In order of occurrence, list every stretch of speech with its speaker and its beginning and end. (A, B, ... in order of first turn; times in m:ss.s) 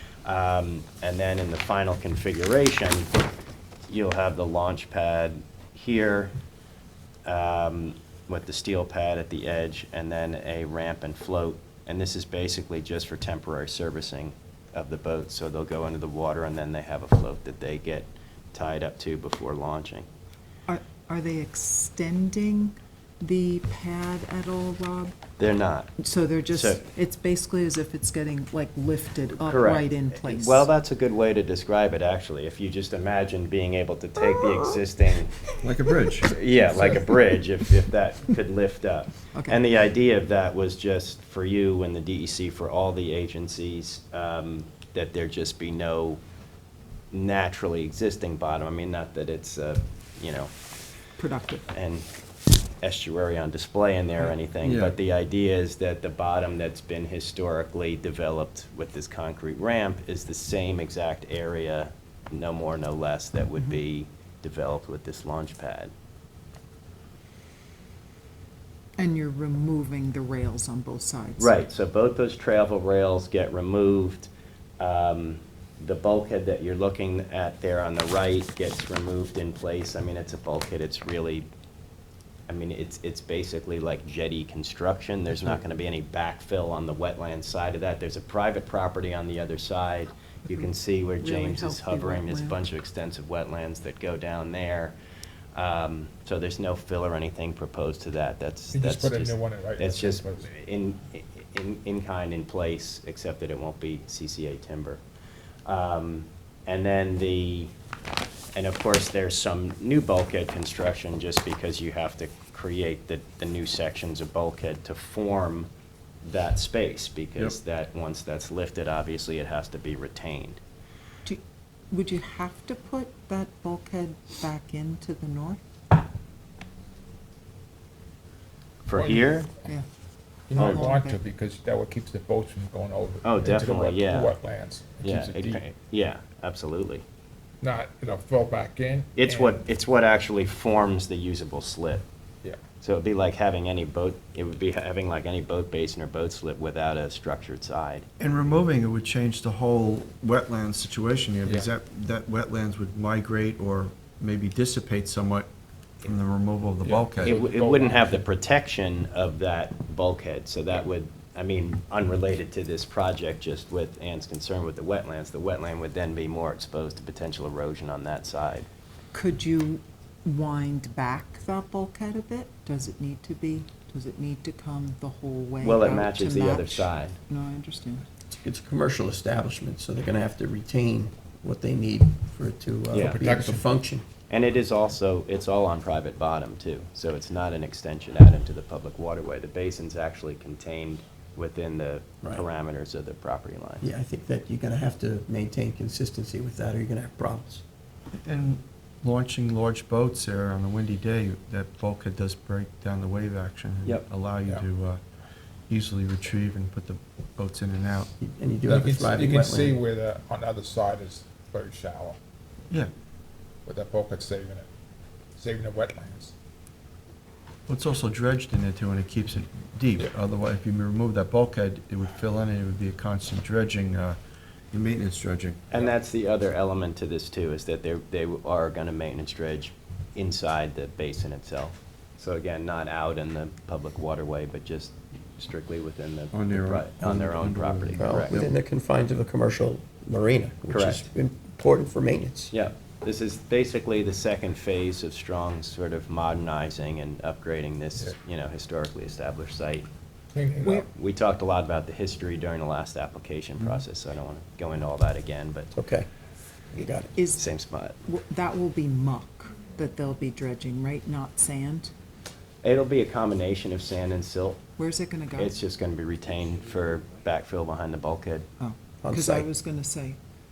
0:00.2-0:03.1 A
0:03.9-0:06.3 A
0:07.2-0:20.1 A
0:20.7-0:25.1 B
0:25.4-0:26.0 A
0:26.0-0:30.7 B
0:26.5-0:26.8 A
0:29.4-0:35.4 A
0:35.6-0:36.3 C
0:36.2-0:46.2 A
0:39.3-0:39.6 B
0:47.1-0:50.5 A
0:51.2-0:51.7 B
0:51.7-0:52.1 A
0:52.8-1:05.9 A
0:54.6-0:54.9 C
1:09.0-1:11.5 B
1:11.4-1:21.5 A
1:22.5-1:34.9 A
1:31.2-1:32.6 B
1:35.5-1:45.0 A
1:38.7-1:40.5 D
1:45.6-1:47.7 A
1:48.5-1:55.7 A
1:56.2-2:00.6 A
2:01.2-2:05.6 B
2:08.8-2:09.5 A
2:08.9-2:09.6 D
2:10.5-2:15.6 D
2:10.5-2:11.2 B
2:13.2-2:14.3 A
2:15.0-2:17.0 A
2:17.6-2:19.6 D
2:19.2-2:22.0 A
2:22.8-2:28.0 A
2:28.2-2:35.5 C
2:31.4-2:31.7 D
2:36.0-2:37.3 C
2:36.8-2:38.2 D
2:37.2-2:48.7 A
2:49.1-2:58.0 B
2:55.6-2:57.2 A
2:58.3-3:04.0 E
3:02.9-3:03.2 A
3:02.9-3:03.6 D
3:04.3-3:13.8 A
3:13.8-3:17.6 E
3:18.2-3:25.0 C
3:25.7-3:28.1 C
3:28.2-3:29.8 E
3:28.6-3:32.2 D
3:33.6-3:34.7 D
3:35.4-3:36.3 D
3:37.7-3:44.2 C
3:44.7-3:45.6 C
3:45.7-3:58.4 A
3:56.3-3:58.5 C
3:58.0-4:02.5 E
4:00.7-4:01.1 A
4:02.5-4:09.9 A
4:10.3-4:10.8 D
4:10.6-4:15.7 A
4:15.7-4:16.1 E
4:16.7-4:17.1 E
4:17.2-4:17.4 B
4:17.4-4:18.0 A
4:18.0-4:21.9 B
4:22.6-4:24.6 A
4:24.8-4:25.5 B
4:25.4-4:28.5 A
4:28.6-4:30.2 B
4:29.0-4:29.5 E